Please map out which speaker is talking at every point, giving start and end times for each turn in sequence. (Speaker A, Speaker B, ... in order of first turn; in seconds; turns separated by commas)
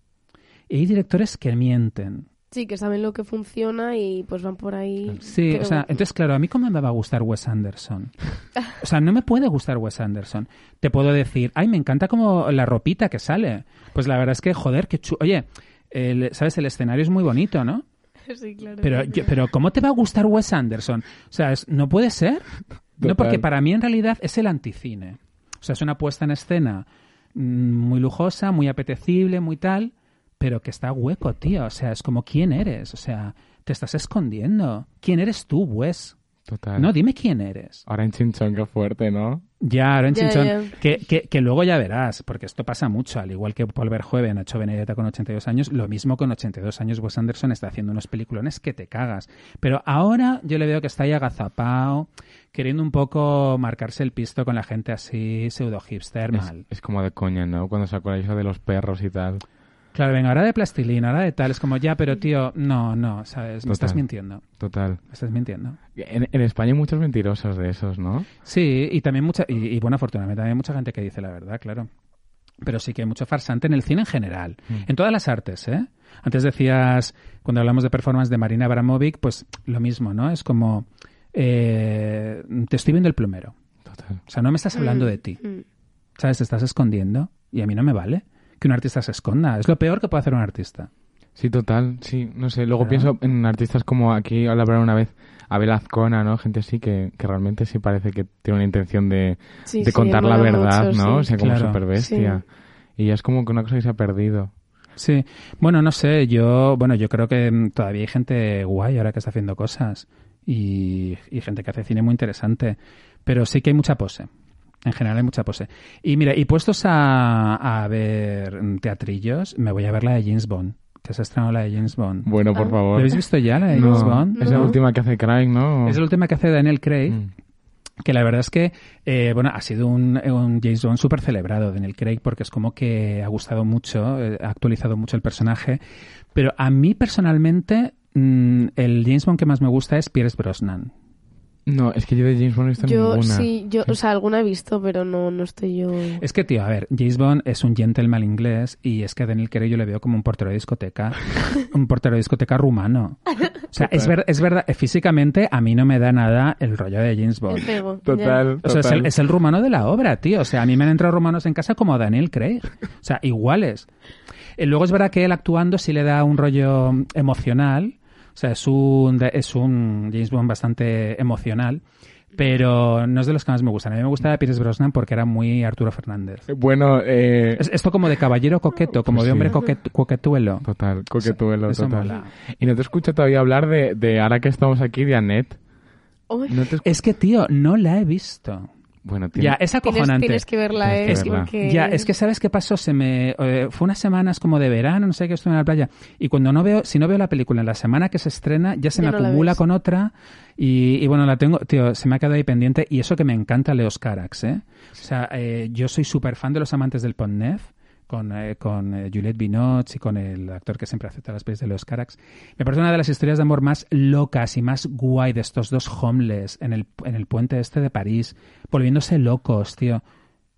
Speaker A: 0.7-2.3, Speaker B: 2.5-6.0, Speaker A: 5.2-8.1, Speaker A: 8.8-17.8, Speaker B: 18.3-19.3, Speaker A: 18.8-22.5, Speaker A: 23.0-36.1, Speaker C: 23.0-23.4, Speaker C: 36.5-36.9, Speaker A: 36.8-37.8, Speaker C: 37.9-39.4, Speaker A: 39.6-56.7, Speaker B: 40.1-40.7, Speaker C: 56.3-59.4, Speaker A: 59.9-64.4, Speaker C: 63.7-64.0, Speaker C: 64.6-65.0, Speaker A: 65.1-65.8, Speaker C: 66.0-68.3, Speaker A: 68.5-71.9, Speaker A: 72.6-83.5, Speaker C: 83.9-84.2, Speaker A: 84.3-85.4, Speaker B: 84.8-85.6, Speaker A: 86.2-90.9, Speaker C: 91.4-102.5, Speaker A: 92.8-93.1, Speaker B: 99.7-101.3, Speaker A: 101.4-101.8, Speaker B: 102.0-102.4, Speaker C: 103.0-104.5, Speaker A: 105.0-114.3, Speaker A: 114.8-122.3, Speaker C: 122.2-126.0, Speaker A: 122.9-124.8, Speaker B: 123.8-124.8, Speaker A: 125.8-127.2, Speaker A: 128.0-135.8, Speaker A: 136.3-140.9, Speaker C: 141.7-143.5, Speaker B: 142.8-146.2, Speaker A: 146.2-157.7, Speaker C: 153.8-154.1, Speaker B: 157.5-158.4, Speaker C: 158.1-159.1, Speaker A: 158.6-163.9, Speaker A: 164.6-171.8, Speaker A: 172.4-176.5, Speaker C: 176.5-177.7, Speaker A: 177.6-180.7, Speaker C: 179.1-179.6, Speaker C: 180.7-185.6, Speaker A: 181.2-182.3, Speaker B: 186.3-186.7, Speaker C: 186.5-186.9, Speaker A: 186.8-188.7, Speaker C: 189.0-189.6, Speaker A: 189.4-190.4, Speaker B: 189.8-192.1, Speaker C: 190.8-191.5, Speaker A: 191.0-220.0, Speaker B: 199.0-199.6